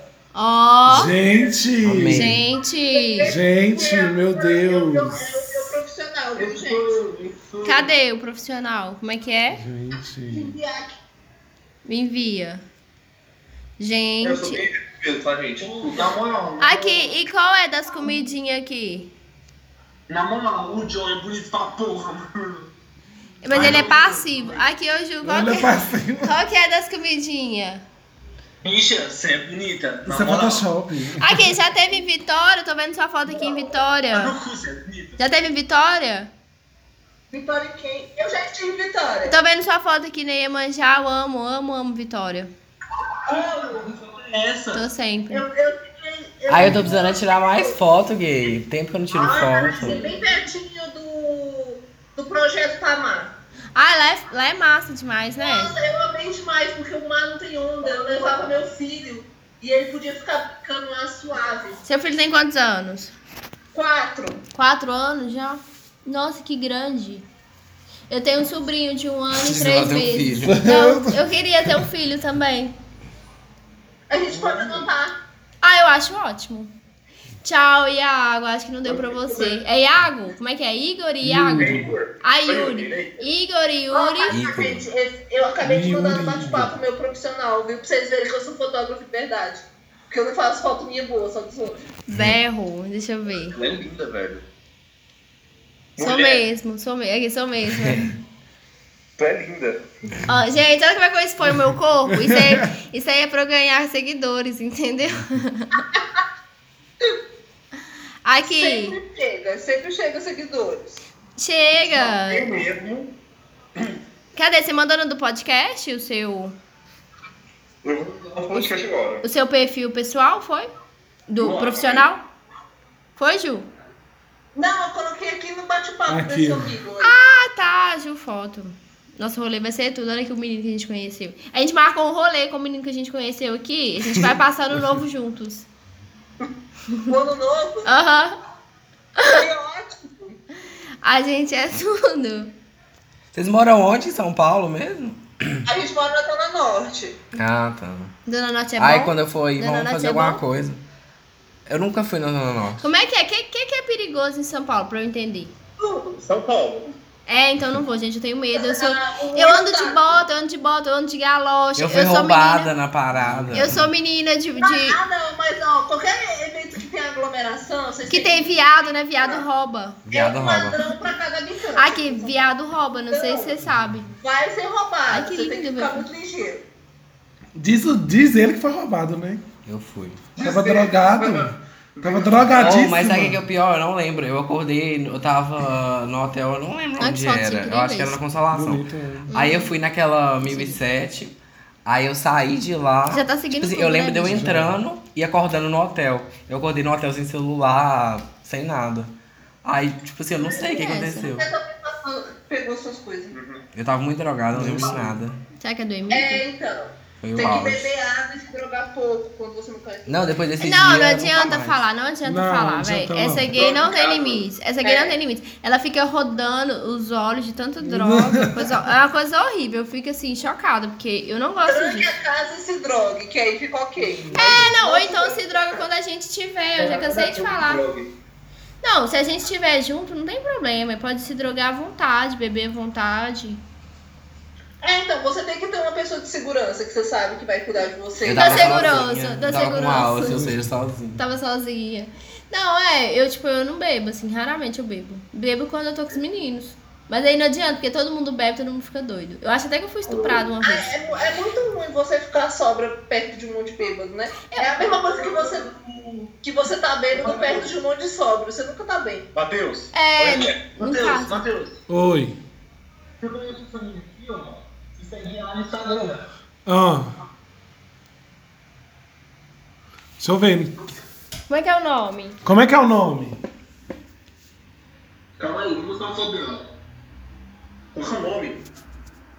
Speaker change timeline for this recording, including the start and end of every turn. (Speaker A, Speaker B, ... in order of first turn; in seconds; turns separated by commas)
Speaker A: 0.3-1.1, Speaker B: 0.9-2.4, Speaker C: 1.8-2.4, Speaker A: 2.1-3.3, Speaker D: 2.9-6.9, Speaker B: 3.2-5.2, Speaker E: 6.3-7.9, Speaker A: 7.6-9.6, Speaker B: 9.6-10.6, Speaker D: 10.3-10.9, Speaker A: 11.8-12.6, Speaker A: 13.8-14.6, Speaker F: 14.2-16.1, Speaker E: 15.6-16.7, Speaker A: 16.6-19.1, Speaker E: 20.1-22.6, Speaker A: 23.4-27.8, Speaker E: 23.5-24.6, Speaker B: 25.2-26.4, Speaker E: 28.6-30.6, Speaker B: 30.0-31.4, Speaker A: 31.2-34.3, Speaker E: 34.2-35.1, Speaker A: 35.2-36.3, Speaker D: 37.3-39.4, Speaker A: 39.3-42.5, Speaker D: 43.3-43.8, Speaker E: 43.3-44.8, Speaker A: 44.7-45.4, Speaker D: 45.3-47.8, Speaker C: 46.5-50.1, Speaker D: 49.1-53.3, Speaker E: 49.6-50.0, Speaker A: 53.7-55.7, Speaker D: 55.4-61.8, Speaker A: 61.8-63.1, Speaker D: 63.7-64.4, Speaker A: 64.5-67.2, Speaker A: 68.1-72.7, Speaker C: 69.3-70.6, Speaker B: 70.5-71.2, Speaker D: 74.1-75.2, Speaker A: 75.6-76.7, Speaker A: 77.4-84.4, Speaker B: 81.2-82.0, Speaker F: 81.6-83.3, Speaker D: 83.9-91.8, Speaker C: 84.3-84.8, Speaker B: 85.6-86.7, Speaker A: 92.1-93.6, Speaker F: 93.5-94.4, Speaker F: 96.0-96.4, Speaker A: 96.0-98.1, Speaker C: 97.7-98.0, Speaker F: 99.2-99.8, Speaker A: 100.3-105.8, Speaker B: 102.1-102.7, Speaker A: 108.2-109.0, Speaker D: 108.4-111.0, Speaker A: 111.4-112.5, Speaker F: 111.8-113.1, Speaker A: 114.3-116.5, Speaker F: 117.8-119.2, Speaker A: 118.5-120.7, Speaker A: 121.3-122.2, Speaker F: 121.4-122.1, Speaker A: 123.2-123.7, Speaker D: 124.5-127.2, Speaker B: 126.1-126.7, Speaker A: 127.0-135.7, Speaker D: 137.1-137.9, Speaker A: 137.8-138.4, Speaker D: 139.2-140.1, Speaker A: 141.0-142.5, Speaker C: 143.3-145.6, Speaker D: 145.7-147.2, Speaker C: 147.3-148.1, Speaker A: 148.3-150.4, Speaker C: 148.8-150.8, Speaker C: 151.7-152.8, Speaker A: 152.8-155.5, Speaker D: 155.8-156.1, Speaker F: 156.1-156.9, Speaker A: 157.3-162.7, Speaker D: 158.5-160.2, Speaker C: 161.8-163.8, Speaker A: 163.5-165.0, Speaker D: 164.6-169.4, Speaker A: 168.1-170.0, Speaker C: 170.1-170.8, Speaker D: 170.1-172.4, Speaker A: 171.8-174.1, Speaker D: 173.1-173.6, Speaker D: 174.2-176.6, Speaker A: 175.1-176.0, Speaker B: 177.6-179.4, Speaker C: 179.6-180.2, Speaker F: 180.3-182.9, Speaker B: 180.4-183.4, Speaker C: 182.6-199.1, Speaker A: 187.0-188.2, Speaker B: 188.5-189.3, Speaker A: 189.3-189.7, Speaker A: 190.4-190.8, Speaker A: 193.1-194.5, Speaker B: 194.3-194.7, Speaker C: 199.6-201.4, Speaker D: 200.4-203.4, Speaker A: 200.5-201.3, Speaker F: 203.3-203.6, Speaker C: 203.7-205.4, Speaker B: 204.5-205.1, Speaker A: 205.6-206.4, Speaker D: 206.1-210.4, Speaker C: 207.2-207.8, Speaker C: 210.1-211.8, Speaker A: 210.6-222.1, Speaker B: 212.2-213.6, Speaker E: 213.8-214.4, Speaker D: 214.8-215.2, Speaker B: 217.8-218.7, Speaker D: 221.6-225.8, Speaker B: 224.0-224.5, Speaker A: 224.3-227.8, Speaker E: 226.8-228.1, Speaker A: 228.8-233.6, Speaker D: 234.8-239.1, Speaker C: 238.2-241.2, Speaker A: 238.3-240.4, Speaker B: 240.3-240.7, Speaker A: 241.2-250.8, Speaker D: 250.6-255.7, Speaker A: 254.5-254.9, Speaker E: 255.9-256.3, Speaker D: 256.3-259.3, Speaker F: 257.1-257.6, Speaker F: 259.3-260.5, Speaker A: 259.9-261.4, Speaker E: 260.8-261.8, Speaker B: 261.9-262.4, Speaker E: 265.1-266.1, Speaker B: 266.6-267.1, Speaker B: 270.2-270.7, Speaker A: 271.5-272.4, Speaker B: 272.4-273.4, Speaker E: 275.4-276.6, Speaker F: 277.9-278.6